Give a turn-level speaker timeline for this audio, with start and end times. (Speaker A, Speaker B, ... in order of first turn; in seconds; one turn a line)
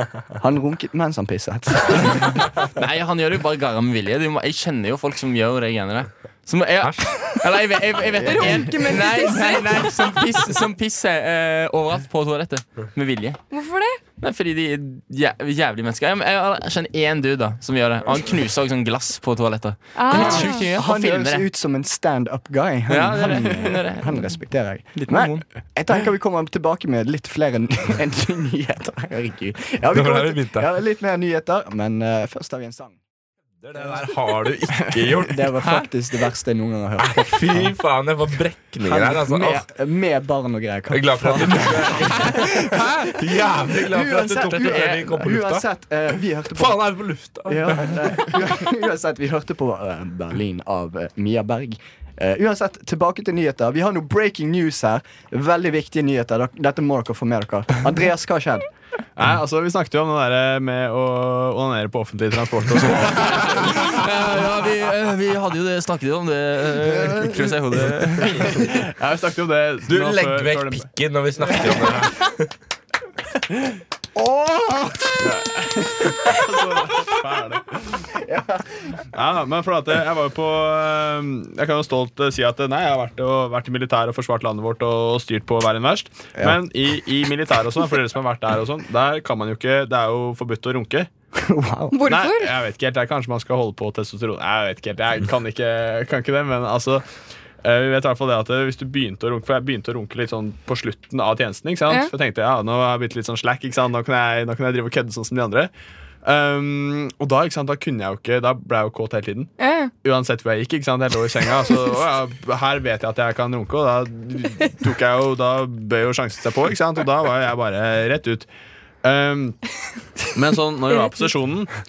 Speaker A: 0.3-2.5
Speaker B: 2.8-13.4
Speaker C: 6.8-7.4
Speaker D: 8.2-10.1
Speaker D: 13.5-14.0
Speaker B: 14.2-21.5
Speaker D: 19.9-20.7
Speaker A: 20.1-33.0
Speaker B: 22.9-24.3
Speaker B: 24.9-25.4
Speaker C: 29.9-30.7
Speaker C: 33.6-35.3
Speaker E: 34.8-35.3
Speaker A: 35.2-37.7
Speaker C: 37.0-39.7
Speaker A: 38.8-42.9
Speaker C: 40.9-45.6
Speaker A: 43.7-46.8
Speaker C: 46.5-48.3
Speaker A: 47.5-58.7
Speaker E: 59.2-63.9
Speaker B: 63.2-68.6
Speaker A: 66.8-67.5
Speaker E: 68.5-70.9
Speaker C: 69.9-72.5
Speaker A: 74.1-75.3
Speaker E: 75.2-77.9
Speaker A: 78.1-78.7
Speaker E: 79.1-91.1
Speaker A: 91.3-92.1
Speaker D: 91.9-92.5
Speaker E: 92.1-97.0
Speaker E: 97.6-105.7
Speaker E: 106.2-109.5
Speaker D: 109.6-109.9
Speaker E: 110.0-118.5
Speaker E: 119.0-119.6
Speaker E: 120.3-121.7
Speaker D: 120.9-121.3